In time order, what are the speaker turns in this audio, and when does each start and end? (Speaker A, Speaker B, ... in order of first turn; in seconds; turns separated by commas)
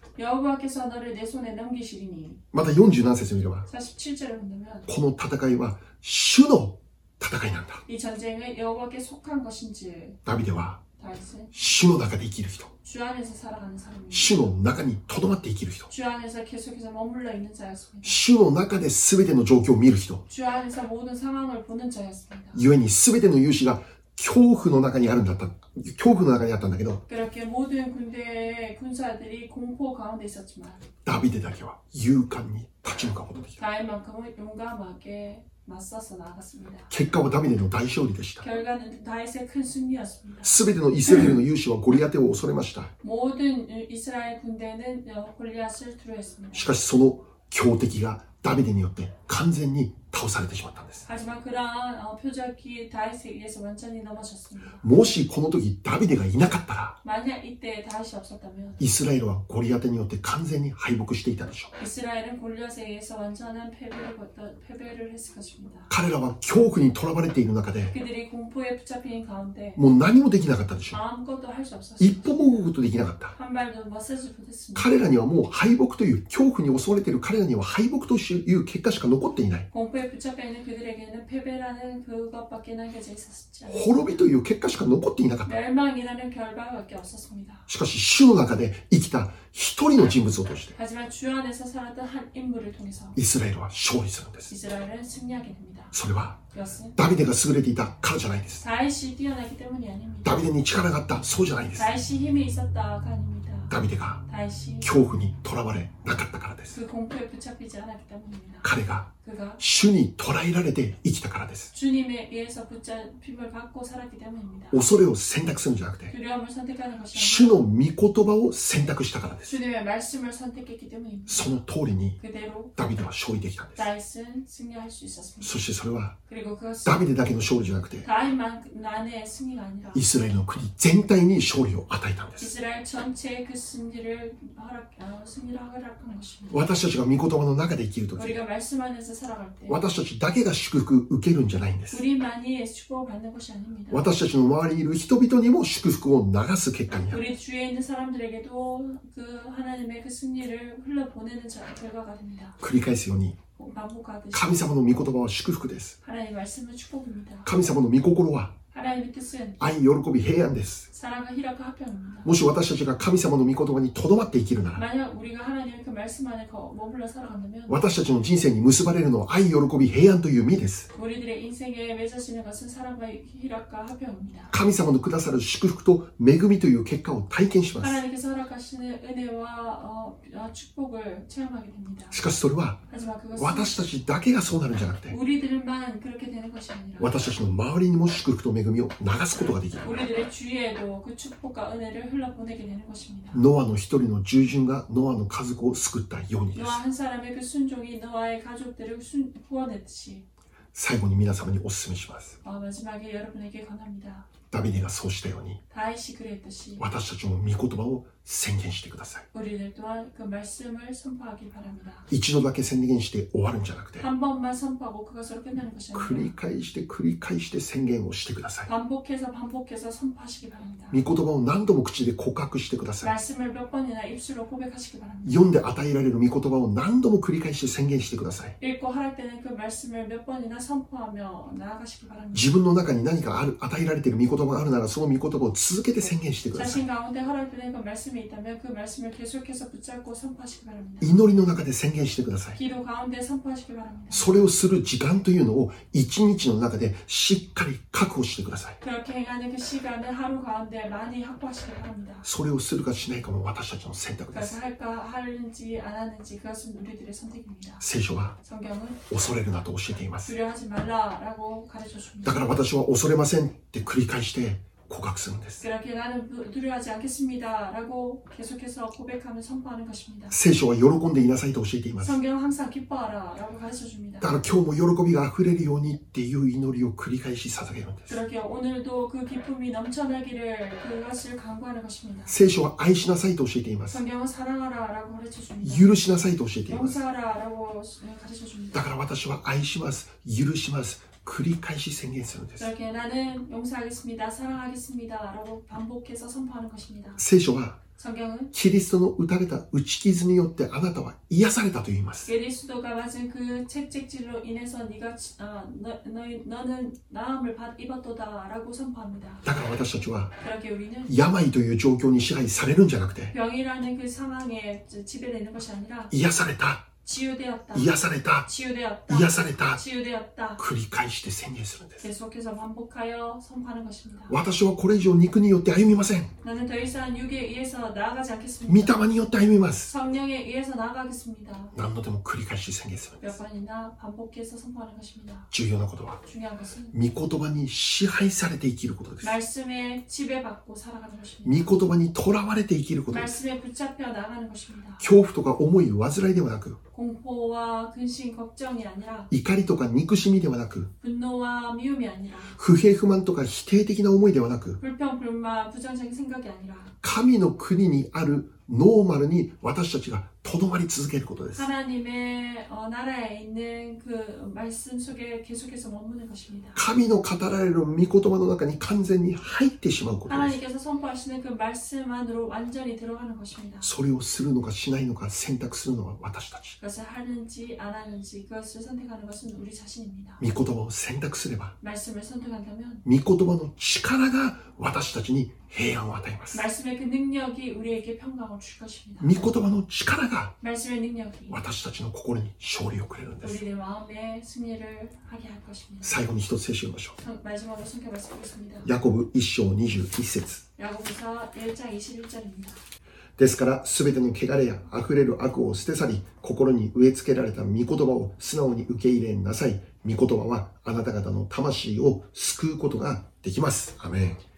Speaker A: 0.1-2.4, Speaker B: 2.5-3.7, Speaker A: 3.7-4.9, Speaker B: 4.9-7.8, Speaker A: 7.9-10.2, Speaker B: 10.2-10.8, Speaker A: 11.0-11.5, Speaker B: 11.5-12.7, Speaker A: 12.8-14.5, Speaker B: 14.1-15.9, Speaker A: 15.9-18.2, Speaker B: 18.0-20.2, Speaker A: 20.3-22.6, Speaker B: 22.5-27.0, Speaker A: 27.1-30.9, Speaker B: 31.1-33.6, Speaker A: 33.6-36.9, Speaker B: 36.9-38.5, Speaker A: 38.4-40.6, Speaker B: 40.4-42.9, Speaker A: 43.0-46.7, Speaker B: 46.5-51.1, Speaker A: 51.1-54.9, Speaker B: 54.8-57.0, Speaker A: 57.0-58.9, Speaker B: 58.8-61.7, Speaker A: 61.8-65.9, Speaker B: 65.9-67.9, Speaker A: 67.9-69.8, Speaker B: 69.8-71.0, Speaker A: 70.9-72.7, Speaker B: 72.0-73.3, Speaker A: 73.3-75.0, Speaker B: 74.8-79.7, Speaker A: 79.7-84.3, Speaker B: 83.7-85.5, Speaker A: 85.4-87.7, Speaker B: 87.7-90.8, Speaker A: 90.8-93.2, Speaker B: 93.2-94.5, Speaker A: 94.5-96.0, Speaker B: 95.9-96.4, Speaker A: 96.5-97.0, Speaker B: 97.0-98.6, Speaker A: 98.6-100.4, Speaker B: 100.2-101.9, Speaker A: 101.8-104.9, Speaker B: 103.7-104.2, Speaker B: 104.8-106.8, Speaker A: 106.7-109.6, Speaker B: 108.6-111.7, Speaker A: 111.7-114.9, Speaker B: 114.7-116.1, Speaker A: 116.1-117.7, Speaker B: 117.1-119.6, Speaker A: 119.5-121.5, Speaker B: 121.3-122.2, Speaker A: 122.2-122.8, Speaker B: 122.8-123.8, Speaker A: 123.8-125.6, Speaker B: 125.4-126.2, Speaker A: 126.3-127.0, Speaker B: 126.8-128.1, Speaker A: 128.0-130.1, Speaker B: 129.9-132.5, Speaker A: 132.4-136.7, Speaker B: 136.5-138.4, Speaker A: 138.2-139.8, Speaker B: 139.7-142.0, Speaker A: 141.9-144.1, Speaker B: 143.9-147.2, Speaker A: 146.9-152.6, Speaker B: 152.6-153.4, Speaker A: 153.6-154.7, Speaker B: 154.3-156.0, Speaker A: 156.0-157.5, Speaker B: 157.4-158.6, Speaker A: 158.7-159.6, Speaker B: 159.6-160.9, Speaker A: 160.9-162.4, Speaker B: 162.2-164.8, Speaker A: 164.8-168.4, Speaker B: 167.7-170.9, Speaker A: 170.9-174.5, Speaker B: 174.5-178.0, Speaker A: 177.8-182.2, Speaker B: 182.1-182.8, Speaker A: 182.9-183.8, Speaker B: 183.4-185.2, Speaker A: 185.1-187.2, Speaker B: 187.0-190.1, Speaker A: 189.8-193.4, Speaker B: 193.3-196.8, Speaker A: 196.6-200.3, Speaker B: 200.7-202.4, Speaker A: 202.4-204.3, Speaker B: 204.5-205.6, Speaker A: 205.7-206.8, Speaker B: 206.8-209.3, Speaker A: 209.3-212.1, Speaker B: 212.1-214.1, Speaker A: 214.0-216.3, Speaker B: 215.9-218.7, Speaker A: 218.7-221.0, Speaker B: 220.9-223.1, Speaker A: 223.0-225.4, Speaker B: 225.2-228.6, Speaker A: 228.6-232.6, Speaker B: 232.3-236.8, Speaker A: 236.5-241.2, Speaker B: 241.0-242.6, Speaker A: 242.6-244.3, Speaker B: 244.1-248.8, Speaker A: 248.8-252.3, Speaker B: 252.2-254.6, Speaker A: 254.3-257.9, Speaker B: 257.8-258.4, Speaker A: 258.4-259.0, Speaker B: 259.1-260.3, Speaker A: 260.3-262.5, Speaker B: 262.2-265.6, Speaker A: 265.6-270.4, Speaker B: 270.3-272.1, Speaker A: 272.0-274.4, Speaker B: 274.2-278.1, Speaker A: 278.1-282.4, Speaker B: 282.3-284.0, Speaker A: 283.9-286.0, Speaker B: 285.6-287.0, Speaker A: 286.7-288.9, Speaker B: 288.7-292.7, Speaker A: 292.6-297.2, Speaker B: 297.2-297.8, Speaker A: 297.9-298.5, Speaker B: 298.5-302.3, Speaker A: 302.3-309.4, Speaker B: 309.4-310.3, Speaker A: 310.4-311.2, Speaker B: 311.1-313.3, Speaker A: 313.3-316.1, Speaker B: 316.1-316.9, Speaker A: 317.1-320.6, Speaker B: 317.7-318.5, Speaker B: 319.1-319.8, Speaker B: 320.6-322.1, Speaker A: 322.0-324.4, Speaker B: 324.3-326.3, Speaker A: 326.4-329.0, Speaker B: 328.7-329.9, Speaker A: 329.9-331.7, Speaker B: 331.7-333.4, Speaker A: 333.2-335.5, Speaker B: 335.5-336.2, Speaker A: 336.2-337.0, Speaker B: 336.9-339.4, Speaker A: 339.2-341.9, Speaker B: 341.4-343.4, Speaker A: 343.1-345.1, Speaker B: 345.0-346.8, Speaker A: 346.9-349.3, Speaker B: 349.3-350.9, Speaker A: 351.0-352.6, Speaker B: 352.6-354.8, Speaker A: 354.8-357.0, Speaker B: 357.0-361.7, Speaker A: 361.6-366.8, Speaker B: 366.8-370.6, Speaker A: 370.3-373.9, Speaker B: 373.8-376.8, Speaker A: 376.8-380.4, Speaker B: 380.4-381.8, Speaker A: 381.8-383.1, Speaker B: 383.1-386.6, Speaker A: 386.5-389.4, Speaker B: 389.2-390.6, Speaker A: 390.6-391.6, Speaker B: 391.5-393.6, Speaker A: 393.4-396.2, Speaker B: 396.0-397.2, Speaker A: 397.2-398.9, Speaker B: 398.8-400.6, Speaker A: 400.8-402.8, Speaker B: 403.4-414.4